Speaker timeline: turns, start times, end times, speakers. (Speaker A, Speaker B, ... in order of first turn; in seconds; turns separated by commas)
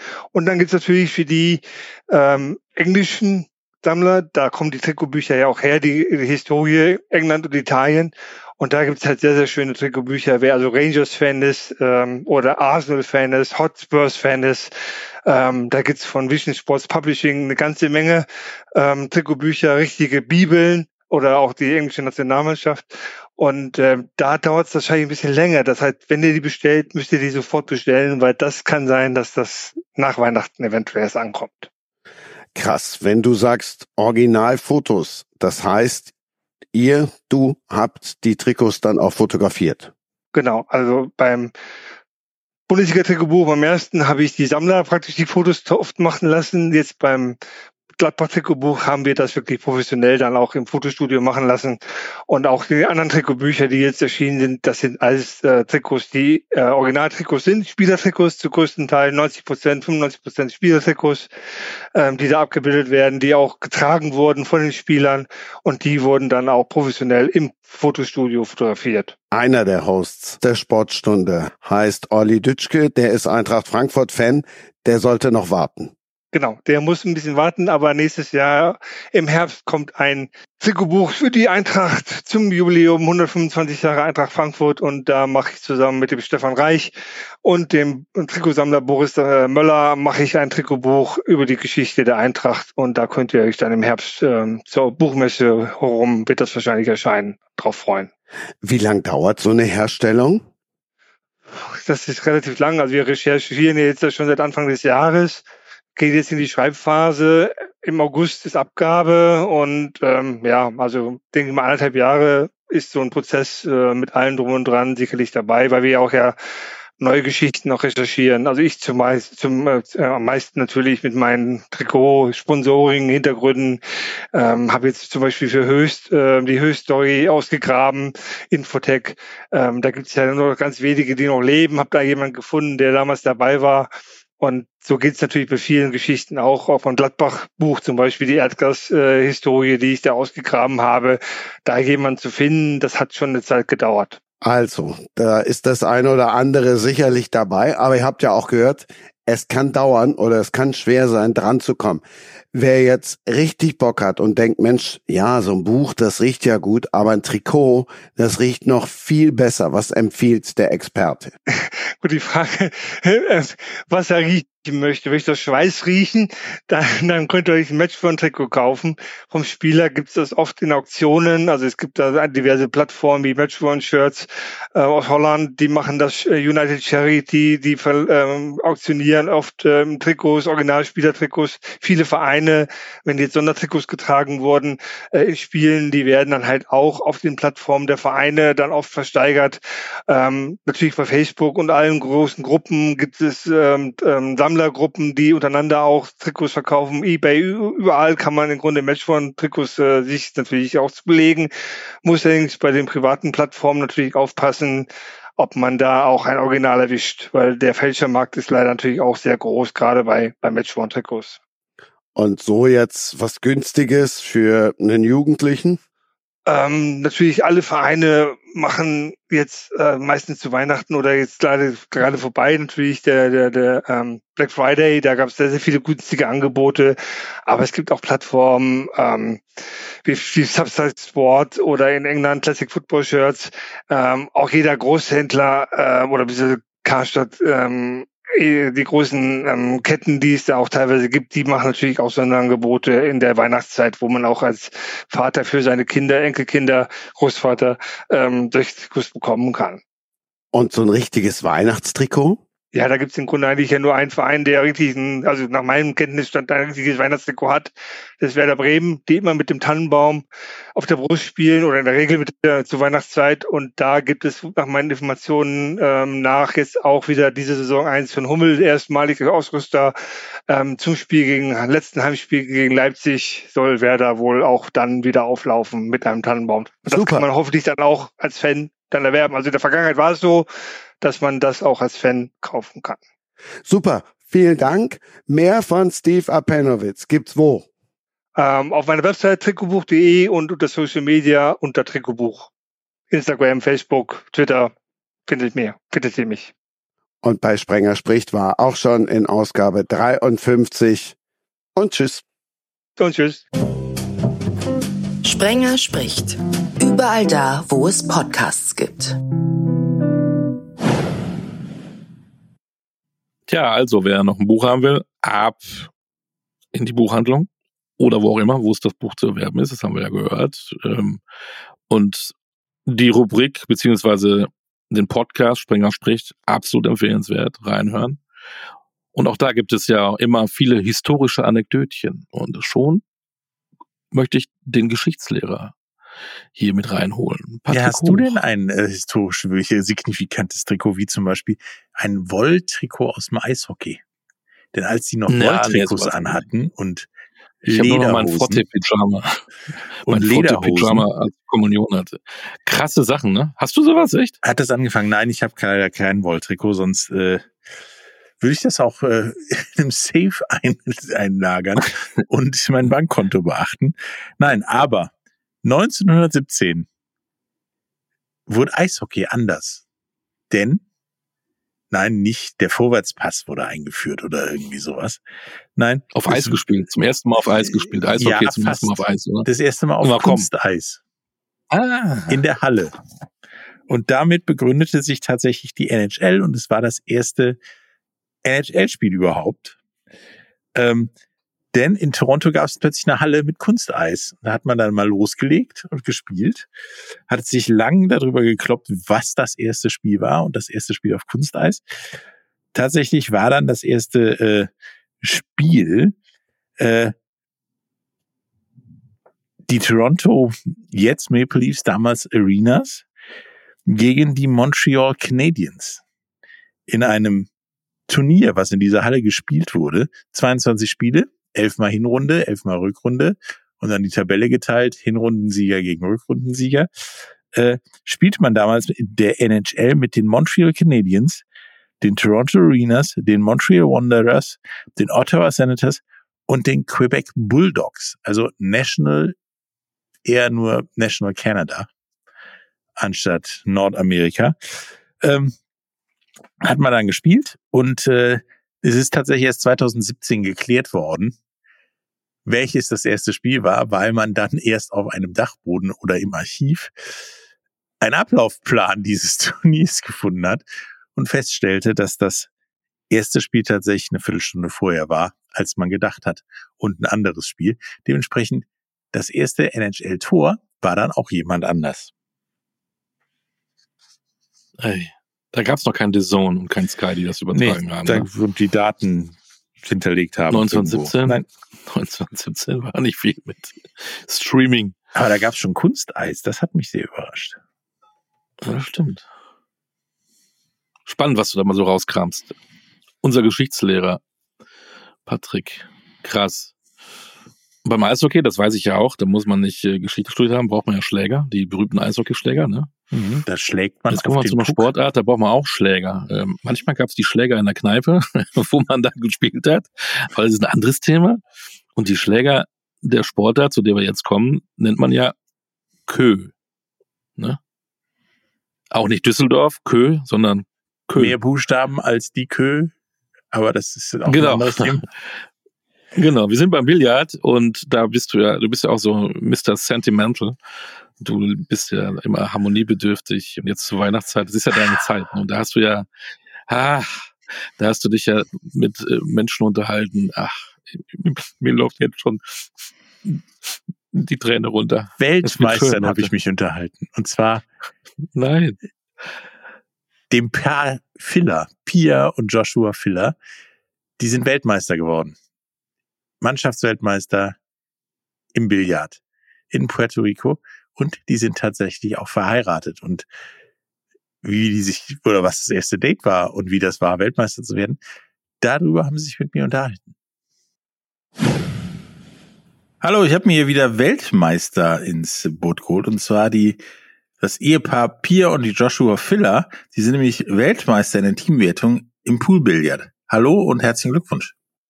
Speaker A: 0.3-14.7, Speaker A: 15.2-31.7, Speaker B: 32.5-36.1, Speaker B: 36.7-39.9, Speaker A: 40.3-41.5, Speaker A: 42.7-47.4, Speaker A: 48.0-61.3, Speaker A: 61.9-69.2, Speaker B: 69.3-75.9, Speaker A: 76.3-86.9, Speaker A: 87.4-98.1, Speaker B: 98.6-100.4, Speaker A: 101.8-105.4, Speaker A: 106.0-116.3, Speaker A: 117.0-123.8, Speaker A: 124.3-144.2, Speaker B: 144.4-161.3, Speaker A: 161.5-201.5, Speaker A: 202.0-211.4, Speaker B: 212.1-215.8, Speaker A: 216.5-226.9, Speaker A: 227.5-229.4, Speaker A: 230.0-249.8, Speaker B: 250.5-252.4, Speaker A: 252.7-269.9, Speaker A: 270.5-280.4, Speaker B: 276.9-277.2, Speaker A: 281.0-283.0, Speaker B: 283.6-287.7, Speaker A: 288.4-292.5, Speaker A: 293.1-294.7, Speaker A: 295.3-296.5, Speaker B: 297.2-301.1, Speaker B: 301.8-302.2, Speaker A: 303.0-303.4, Speaker C: 305.2-309.1, Speaker D: 313.5-315.9, Speaker D: 316.7-317.5, Speaker D: 318.0-321.2, Speaker D: 321.9-322.3, Speaker D: 322.9-328.2, Speaker D: 329.1-333.0, Speaker D: 334.1-335.7, Speaker D: 336.6-338.3, Speaker E: 337.7-344.0, Speaker E: 344.7-347.1, Speaker D: 345.3-346.4, Speaker E: 347.6-348.6, Speaker D: 347.7-349.4, Speaker D: 350.1-354.4, Speaker E: 350.1-351.1, Speaker E: 354.4-357.4, Speaker E: 358.4-365.1, Speaker E: 365.6-366.9, Speaker E: 368.5-369.8, Speaker E: 370.5-370.8, Speaker E: 371.9-375.2, Speaker E: 375.8-376.6, Speaker D: 376.1-379.5, Speaker E: 377.6-381.0, Speaker D: 380.0-380.5, Speaker D: 381.7-382.4, Speaker E: 382.3-382.9, Speaker E: 383.9-387.6, Speaker E: 388.4-389.8, Speaker E: 390.7-391.1, Speaker E: 391.7-396.7, Speaker E: 397.3-401.8, Speaker E: 402.7-404.7, Speaker E: 405.2-406.1, Speaker E: 406.8-407.1, Speaker E: 409.7-413.1, Speaker E: 413.9-416.0, Speaker E: 416.9-417.5, Speaker E: 418.1-426.9, Speaker E: 427.5-431.4, Speaker E: 432.0-439.3, Speaker E: 440.2-441.9, Speaker E: 443.0-444.6, Speaker E: 445.2-445.5, Speaker E: 446.6-451.3, Speaker E: 452.4-457.2, Speaker E: 458.0-460.6, Speaker E: 461.1-462.5, Speaker E: 463.1-472.1, Speaker D: 474.8-478.3, Speaker E: 477.5-481.4, Speaker D: 480.5-484.9, Speaker E: 485.1-487.6, Speaker D: 488.6-489.2, Speaker D: 491.1-492.5, Speaker D: 493.2-494.2, Speaker D: 495.2-496.7, Speaker D: 497.8-502.9, Speaker E: 503.1-504.9, Speaker D: 504.1-511.4, Speaker D: 511.9-515.3, Speaker D: 516.1-516.5, Speaker D: 518.9-521.3, Speaker E: 521.1-522.9, Speaker E: 523.5-525.0, Speaker D: 524.3-525.0, Speaker D: 526.1-530.5, Speaker D: 531.2-536.1, Speaker D: 536.7-542.4, Speaker D: 544.1-546.3, Speaker E: 545.2-547.6, Speaker D: 548.3-548.8, Speaker E: 550.3-553.4, Speaker E: 554.2-555.4, Speaker E: 556.4-557.6, Speaker E: 558.5-563.3, Speaker E: 564.4-568.0, Speaker E: 568.6-570.1, Speaker E: 573.0-576.8, Speaker E: 577.4-584.5